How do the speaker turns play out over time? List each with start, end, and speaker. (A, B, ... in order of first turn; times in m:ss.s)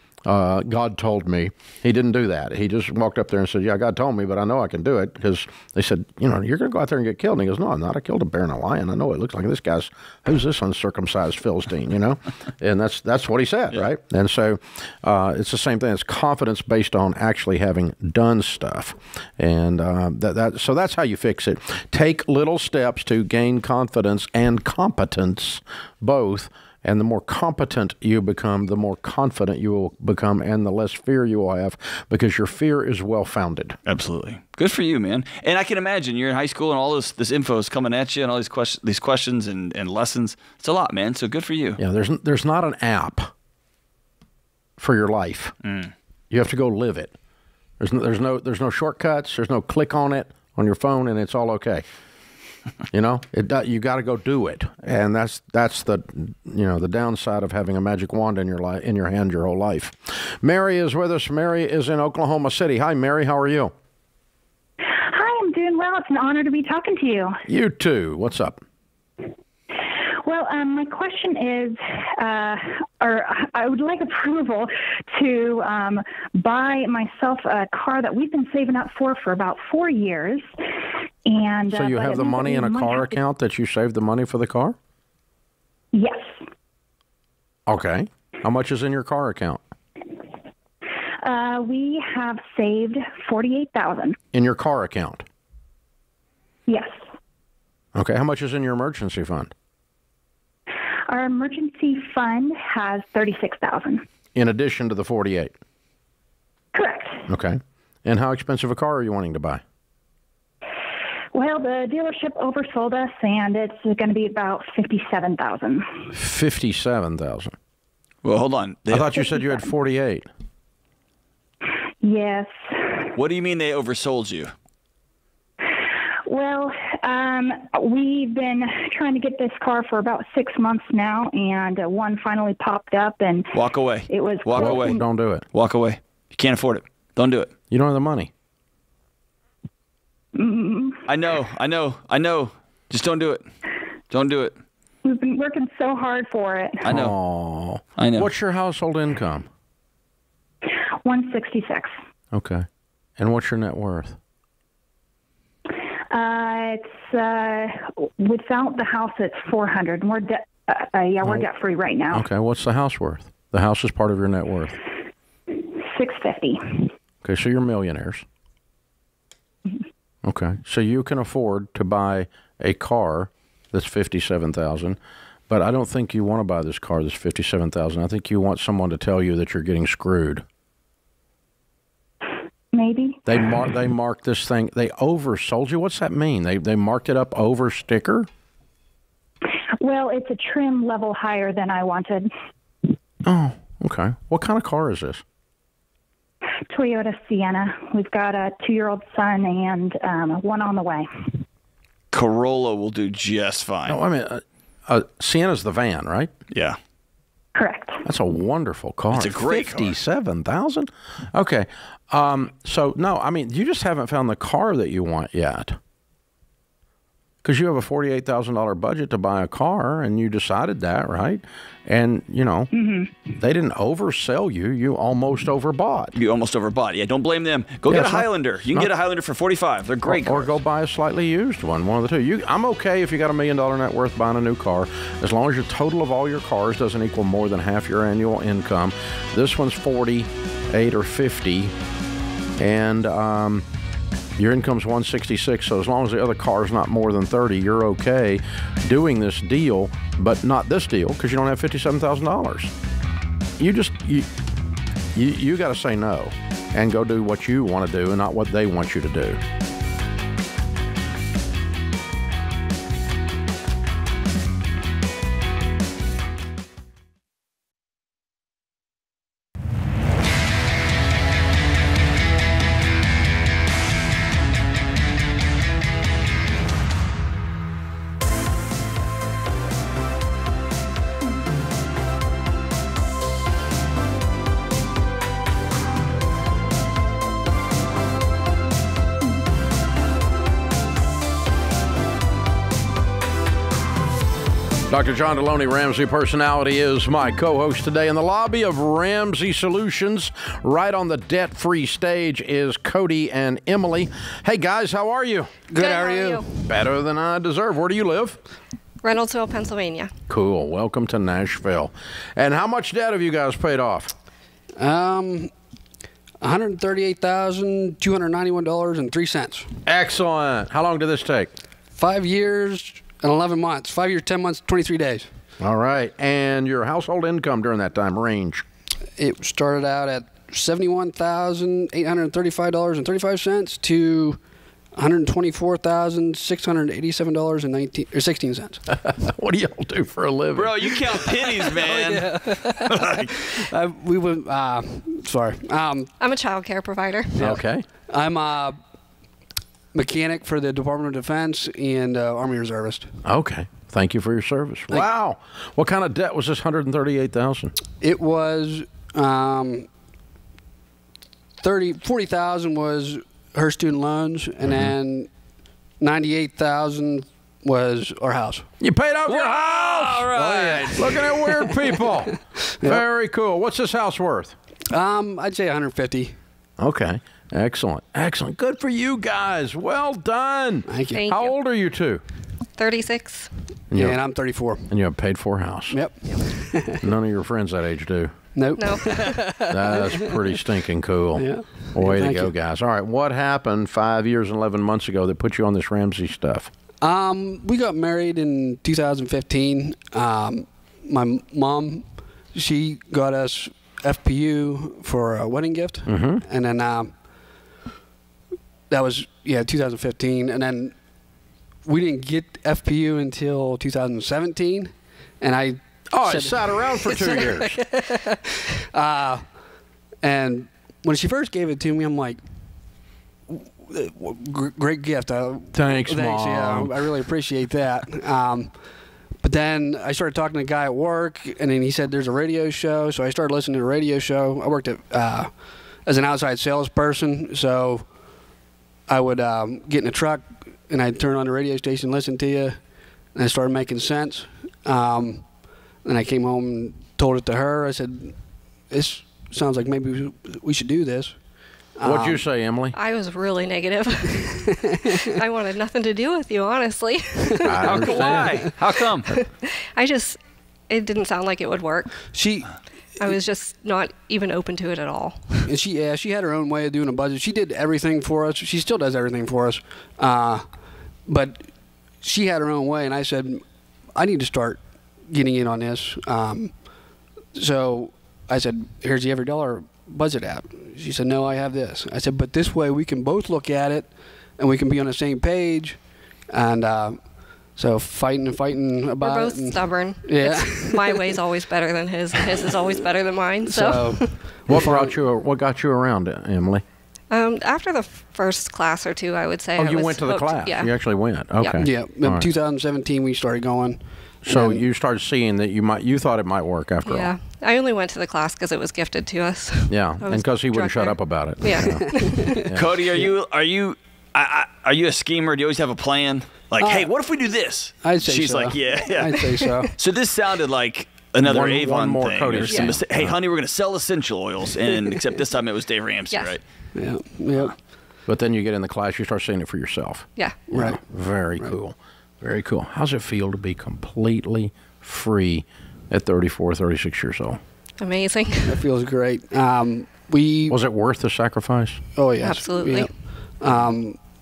0:00.2-0:33.8 A
0:33.9-0:41.8 B
0:41.8-0:43.3 A
0:44.8-0:45.6 A
0:45.6-0:45.9 B
0:46.3-0:47.1 A
0:47.8-0:51.8 A
0:52.9-1:03.7 A
1:04.9-1:07.4 C
1:07.5-1:08.6 A
1:10.2-1:20.5 C
1:21.3-1:23.2 C
1:21.7-1:24.8 A
1:25.9-1:26.4 C
1:27.7-1:29.6 A
1:31.2-1:34.2 C
1:34.3-1:35.2 A
1:36.7-1:37.0 C
1:38.0-1:39.5 A
1:41.1-1:44.0 C
1:44.4-1:45.6 A
1:46.7-1:47.3 C
1:47.3-1:49.6 A
1:51.3-1:56.1 C
1:56.1-1:57.5 A
1:58.2-1:59.2 B
1:58.9-2:00.3 A
2:02.0-2:03.0 C
2:03.2-2:04.5 B
2:06.3-2:13.5 C
2:13.5-2:15.0 B
2:14.1-2:15.0 C
2:14.5-2:15.5 A
2:15.5-2:17.5 B
2:17.7-2:18.3 A
2:20.4-2:21.0 C
2:21.1-2:23.5 B
2:24.1-2:24.6 B
2:25.0-2:26.8 C
2:26.8-2:27.1 B
2:26.9-2:29.5 A
2:28.0-2:28.3 B
2:31.0-2:31.9 C
2:32.3-2:32.7 A
2:33.2-2:34.2 A
2:36.1-2:42.3 C
2:42.1-2:44.8 A
2:45.8-2:46.9 C
2:47.2-2:48.2 A
2:50.2-3:00.4 A
3:02.7-3:03.4 C
3:03.3-3:08.3 A
3:09.8-3:12.3 C
3:13.2-3:15.2 A
3:16.7-3:21.4 C
3:22.1-3:24.0 B
3:23.9-3:26.3 A
3:26.5-3:26.8 B
3:27.6-3:28.0 C
3:28.0-3:35.8 A
3:29.1-3:30.0 B
3:37.4-3:42.7 A
3:42.7-3:43.1 C
3:43.4-3:46.2 A
3:46.2-3:50.6 B
3:47.9-3:48.9 A
3:50.1-4:01.7 A
4:02.6-4:03.6 A
4:04.4-4:12.7 A
4:13.6-4:14.3 A
4:15.1-4:19.4 A
4:54.9-5:05.5 A
5:05.7-5:06.5 D
5:05.7-5:06.5 E
5:06.6-5:08.4 A
5:09.0-5:10.1 E
5:10.3-5:14.1 A
5:14.8-5:15.5 D
5:16.4-5:19.7 D
5:19.8-5:21.5 A
5:22.0-5:25.3 D
5:25.6-5:28.6 A
5:29.2-5:34.4 D
5:35.0-5:38.8 D
5:38.9-5:41.3 A
5:40.6-5:43.5 B
5:41.8-5:43.0 D
5:43.6-5:46.1 D
5:46.2-5:47.4 E
5:47.4-5:48.8 D
5:47.4-5:47.8 A
5:49.9-5:53.1 D
5:53.2-5:57.7 A
5:58.0-5:59.9 D
6:01.6-6:05.3 D
6:04.7-6:04.9 A
6:06.0-6:08.7 D
6:08.8-6:14.6 A
6:09.3-6:11.2 B
6:10.3-6:13.0 D
6:14.9-6:16.4 D
6:16.8-6:22.2 A
6:20.9-6:21.3 D
6:21.1-6:21.6 E
6:22.8-6:23.6 E
6:23.9-6:24.2 A
6:23.9-6:24.9 D
6:24.9-6:26.0 A
6:25.9-6:27.0 D
6:27.0-6:28.3 A
6:28.6-6:30.4 D
6:28.8-6:29.5 E
6:29.7-6:36.7 A
6:31.3-6:32.5 D
6:37.0-6:47.2 D
6:46.1-6:46.4 A
6:48.9-6:51.0 D
6:51.8-6:57.5 D
6:56.1-6:57.8 A
6:58.9-6:59.5 D
7:00.2-7:02.4 D
7:03.5-7:08.8 D
7:05.7-7:07.1 A
7:09.4-7:18.1 D
7:19.1-7:22.8 D
7:23.4-7:25.5 D
7:26.0-7:31.4 D
7:32.0-7:32.4 D
7:32.0-7:33.0 A
7:32.9-7:34.8 E
7:35.3-7:38.5 E
7:37.6-7:38.6 A
7:37.8-7:39.3 B
7:39.5-7:42.3 E
7:42.3-7:42.7 D
7:43.2-7:45.7 E
7:45.7-7:53.6 D
7:54.2-7:56.8 D
7:57.5-8:11.2 D
8:09.2-8:14.6 E
8:13.7-8:15.2 D
8:14.7-8:16.8 A
8:17.3-8:21.0 E
8:19.8-8:22.5 A
8:21.6-8:22.0 E
8:21.8-8:24.8 D
8:24.4-8:27.3 A
8:27.0-8:32.6 E
8:29.9-8:32.0 A
8:31.9-8:33.3 D
8:32.7-8:46.6 B
8:36.8-8:37.1 D
8:38.0-8:39.9 D
8:41.4-8:43.4 A
8:46.3-8:46.6 E
8:47.0-8:47.7 D
8:48.3-8:57.6 A
8:50.4-8:50.6 E
8:50.7-8:51.0 D
8:58.0-8:58.8 E
8:58.7-9:00.8 D
9:00.7-9:02.0 A
9:02.2-9:04.2 D
9:02.4-9:03.2 E